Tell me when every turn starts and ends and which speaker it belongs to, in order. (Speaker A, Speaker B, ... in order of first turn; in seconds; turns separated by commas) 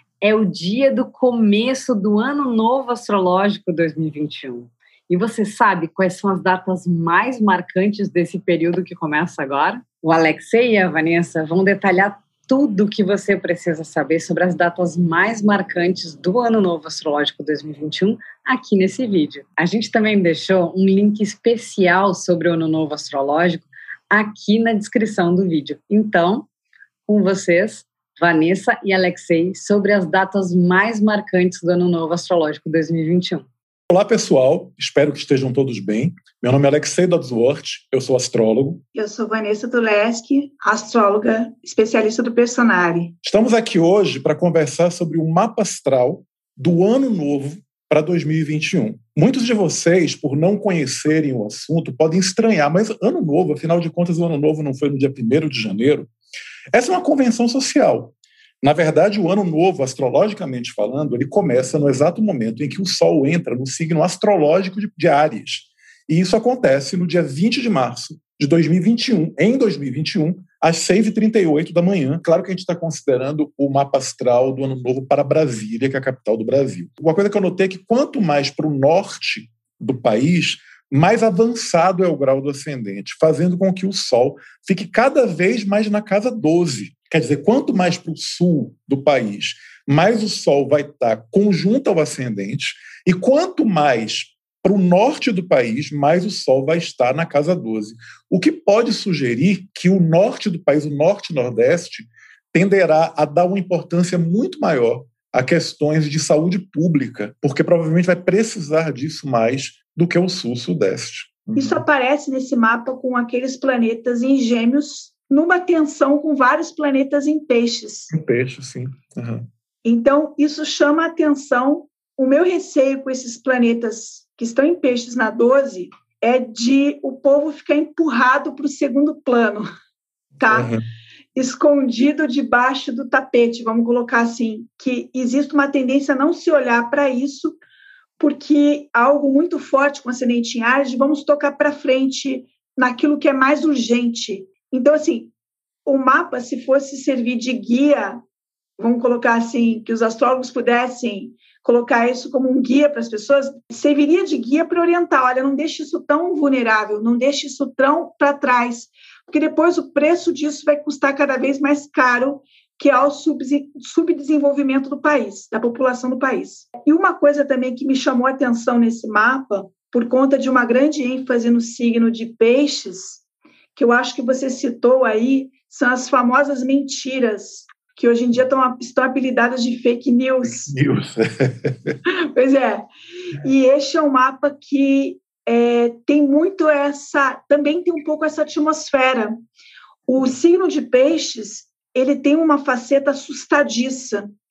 Speaker A: 0.2-26.5, Speaker A: 27.1-33.5, Speaker B: 33.9-38.8, Speaker C: 38.9-43.1, Speaker B: 43.2-56.1, Speaker B: 56.7-111.8, Speaker C: 111.6-118.1, Speaker B: 118.1-119.5, Speaker C: 119.8-129.7, Speaker C: 130.4-130.7, Speaker B: 130.5-130.8, Speaker C: 131.3-137.6, Speaker C: 138.2-145.3, Speaker C: 145.9-148.2, Speaker C: 148.8-173.2, Speaker C: 173.8-180.8, Speaker B: 180.4-182.0, Speaker C: 182.3-189.4, Speaker C: 190.1-194.3